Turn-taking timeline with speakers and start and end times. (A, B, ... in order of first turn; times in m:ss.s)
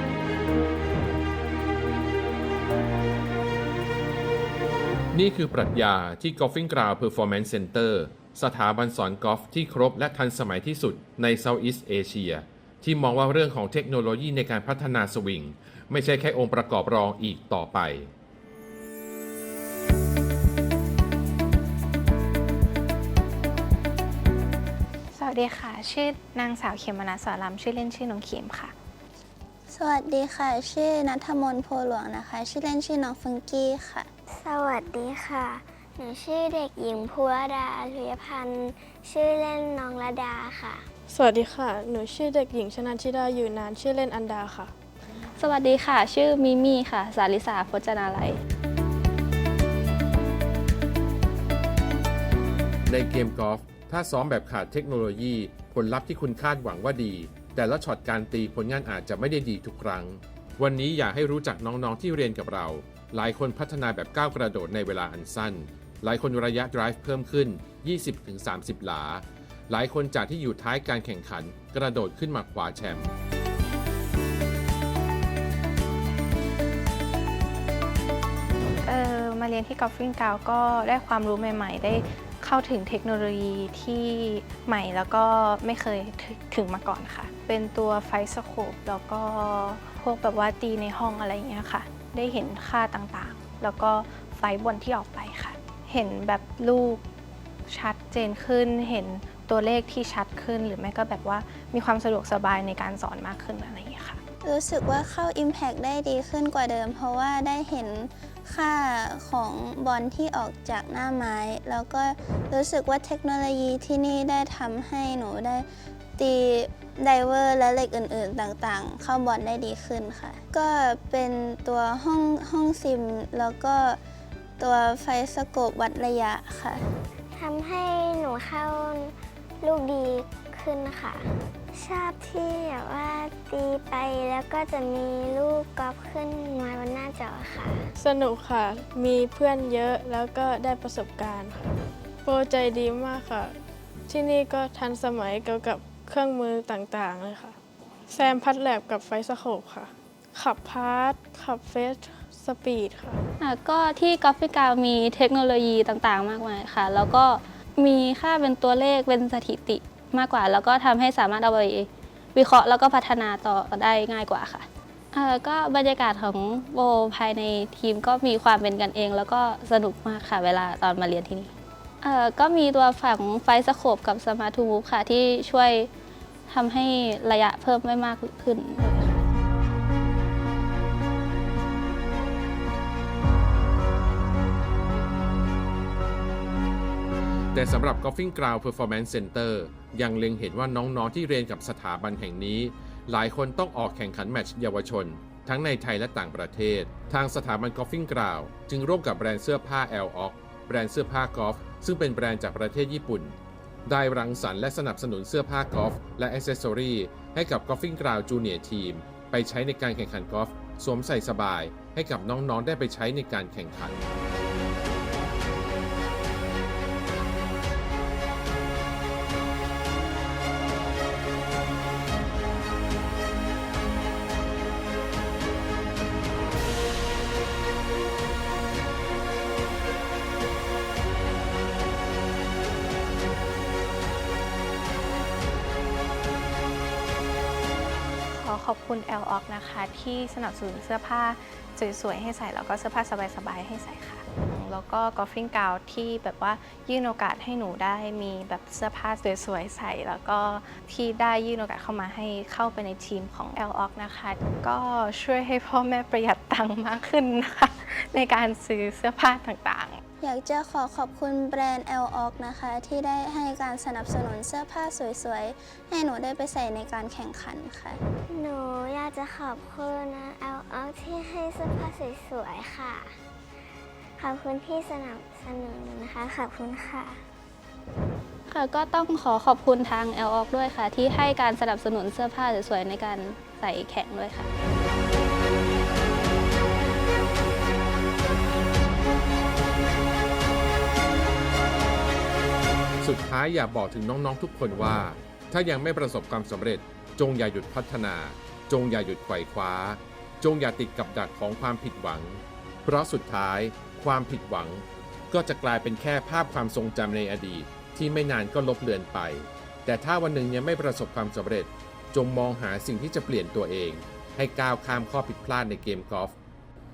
0:05.1-0:18.1 A
0:25.1-0:28.7 B
0:29.7-0:34.1 C
0:34.3-0:40.9 D
0:41.1-0:44.7 E
0:45.2-0:48.4 F
0:52.9-1:13.1 A
1:18.8-1:37.0 B
1:37.7-1:44.2 B
1:44.4-2:04.0 C
2:04.6-2:06.8 C
2:07.3-2:17.9 D
2:18.0-2:21.7 E
2:22.2-2:23.6 E
2:24.1-2:27.6 E
2:28.1-2:33.2 E
2:33.4-2:51.5 F
2:52.0-2:55.9 F
2:56.5-2:59.2 F
3:07.5-3:23.3 A
3:23.8-3:34.0 A
3:58.3-4:20.0 B
4:20.2-4:28.0 C
4:28.3-4:33.2 D
4:34.2-4:37.2 D
4:38.5-4:44.5 F
4:53.0-5:16.4 A